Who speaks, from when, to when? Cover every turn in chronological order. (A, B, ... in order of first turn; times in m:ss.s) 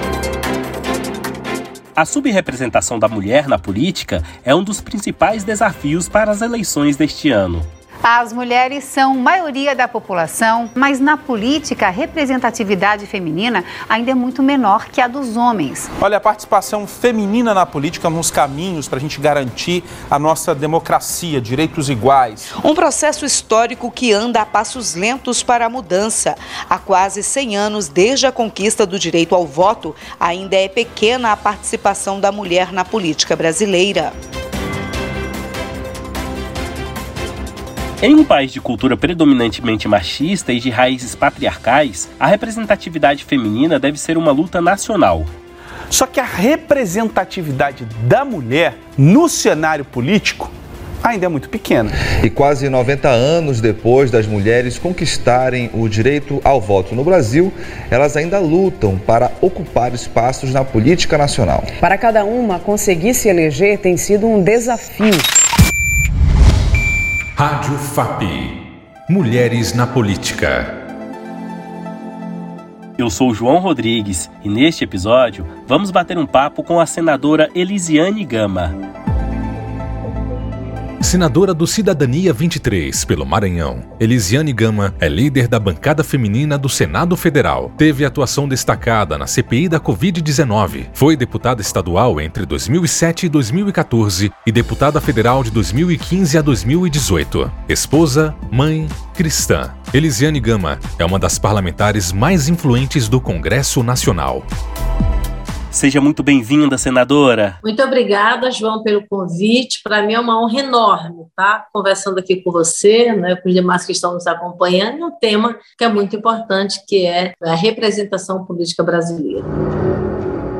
0:02.0-0:07.7 A
0:08.0-0:15.9 B
0:16.0-0:22.5 C
0:22.5-0:34.1 D
0:38.0-0:45.3 A
0:45.9-0:50.5 C
0:51.0-0:51.9 C
0:52.2-1:01.6 E
1:01.8-1:05.2 F
1:07.4-1:08.5 G
1:09.1-1:10.7 G
1:13.0-1:18.7 A
1:21.0-1:44.4 G
1:45.7-1:47.6 A
1:47.6-1:59.4 H